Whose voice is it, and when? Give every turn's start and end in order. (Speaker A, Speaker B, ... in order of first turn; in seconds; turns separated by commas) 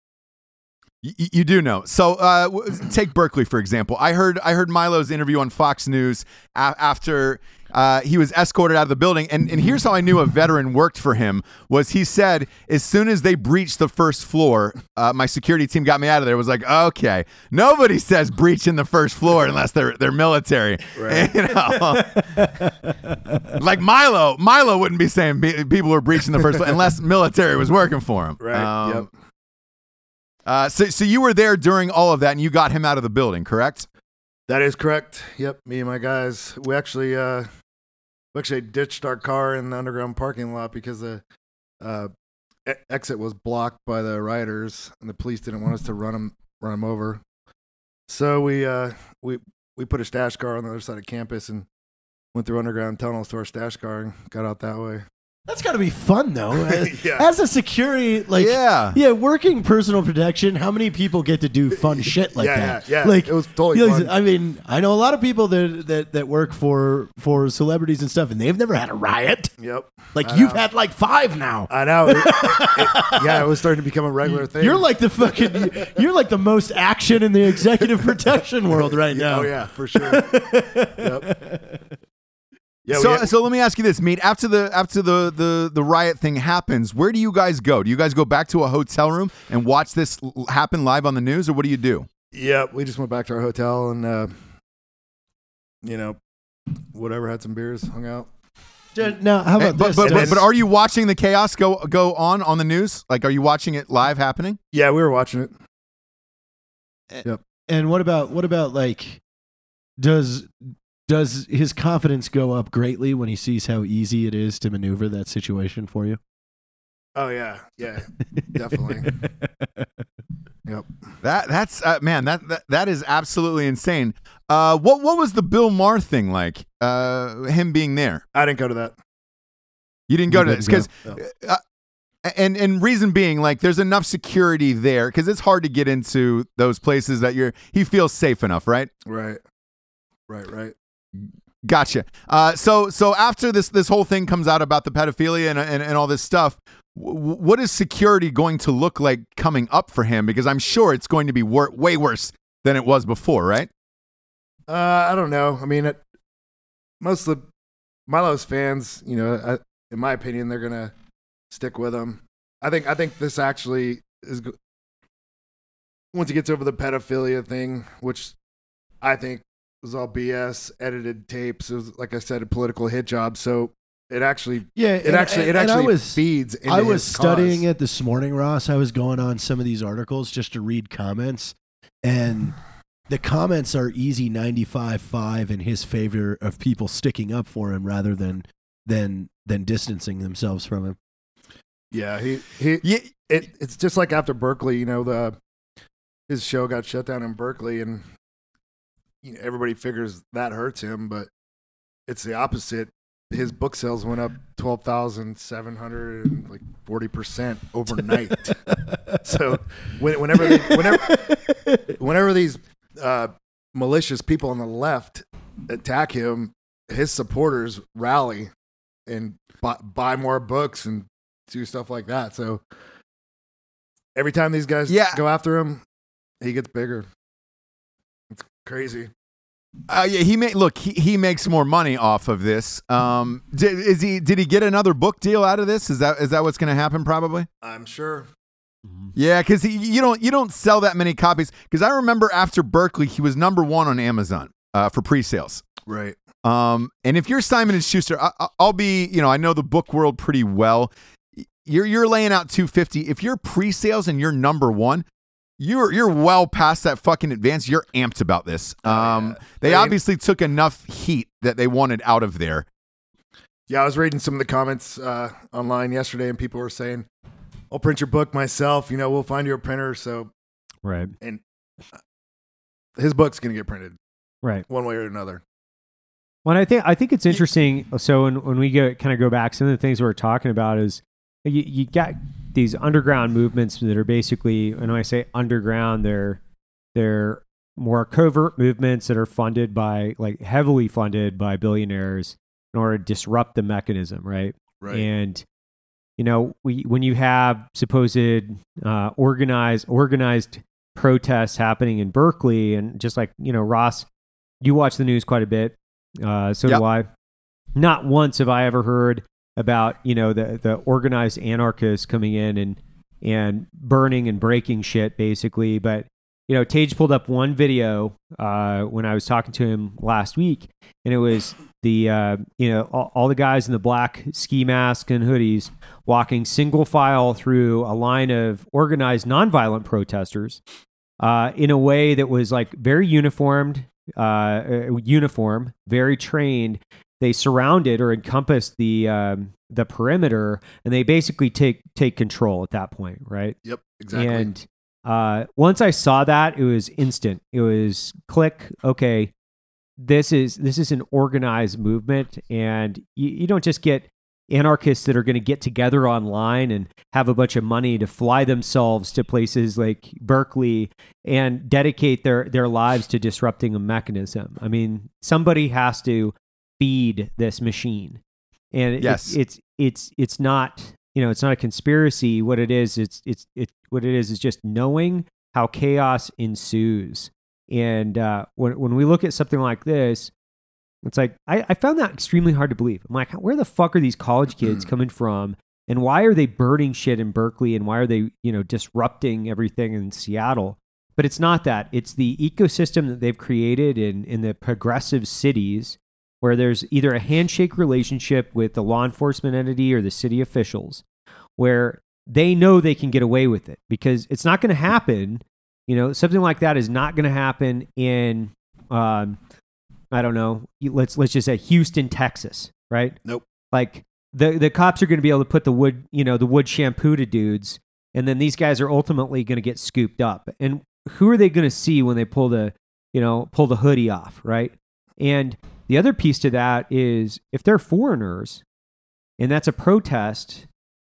Speaker A: 1.0-22.4, Speaker B: 20.9-21.3, Speaker C: 22.1-23.5, Speaker A: 23.5-29.1, Speaker B: 28.4-29.1, Speaker A: 30.4-33.9, Speaker B: 34.5-37.5, Speaker B: 38.3-41.2, Speaker B: 41.8-42.1, Speaker B: 42.6-47.2, Speaker B: 48.1-51.6, Speaker B: 52.3-55.0, Speaker C: 55.5-69.5, Speaker B: 56.7-57.2, Speaker A: 58.4-59.0, Speaker B: 61.9-64.1, Speaker B: 69.6-70.6, Speaker C: 70.1-73.5, Speaker B: 71.7-74.8, Speaker C: 74.2-81.9, Speaker B: 75.6-75.8, Speaker B: 79.1-80.3, Speaker B: 81.0-81.3, Speaker B: 82.8-83.3, Speaker A: 82.9-92.0, Speaker B: 92.3-94.3, Speaker B: 95.8-96.2, Speaker B: 96.9-98.3, Speaker C: 98.9-100.4, Speaker A: 99.6-104.6, Speaker B: 100.0-100.4, Speaker B: 104.7-105.5, Speaker C: 107.1-109.2, Speaker C: 110.0-110.5, Speaker C: 111.1-116.2, Speaker B: 117.1-119.2, Speaker C: 119.0-119.9, Speaker A: 121.2-128.2, Speaker B: 128.3-128.9, Speaker A: 130.1-131.6, Speaker C: 130.3-130.8, Speaker A: 132.2-138.9, Speaker B: 139.0-139.4, Speaker B: 140.3-140.7, Speaker A: 141.6-153.7, Speaker B: 154.7-156.0, Speaker B: 157.0-157.4, Speaker B: 158.1-160.9, Speaker B: 161.5-164.5, Speaker B: 166.1-168.3, Speaker B: 169.0-177.6, Speaker C: 174.8-182.6, Speaker C: 183.1-191.0, Speaker B: 191.9-195.3, Speaker B: 196.3-198.0, Speaker B: 199.2-201.3, Speaker B: 202.1-208.6, Speaker C: 208.9-209.2, Speaker B: 209.2-218.5, Speaker C: 210.4-211.9, Speaker B: 219.1-222.6, Speaker B: 224.1-225.8, Speaker A: 224.9-225.2, Speaker B: 226.4-227.1, Speaker B: 228.3-229.1, Speaker A: 229.9-237.5, Speaker B: 237.6-238.3, Speaker A: 239.2-245.7, Speaker B: 245.9-246.2, Speaker A: 246.4-250.9, Speaker A: 251.6-255.0, Speaker A: 255.6-262.6, Speaker B: 258.8-260.0, Speaker B: 263.7-267.1, Speaker B: 267.7-270.3, Speaker D: 270.8-271.1, Speaker B: 273.0-274.0, Speaker B: 274.7-275.4, Speaker D: 276.4-286.4, Speaker D: 286.9-295.4, Speaker B: 294.8-295.1, Speaker D: 296.2-304.1, Speaker D: 304.6-307.1, Speaker D: 307.8-330.6, Speaker D: 331.2-343.6, Speaker B: 343.6-344.5, Speaker D: 344.1-349.3, Speaker D: 350.0-368.2, Speaker D: 368.7-380.3, Speaker A: 369.0-369.4, Speaker D: 381.0-401.0, Speaker D: 401.6-409.4, Speaker D: 410.1-413.2, Speaker D: 413.7-428.6, Speaker D: 429.4-430.7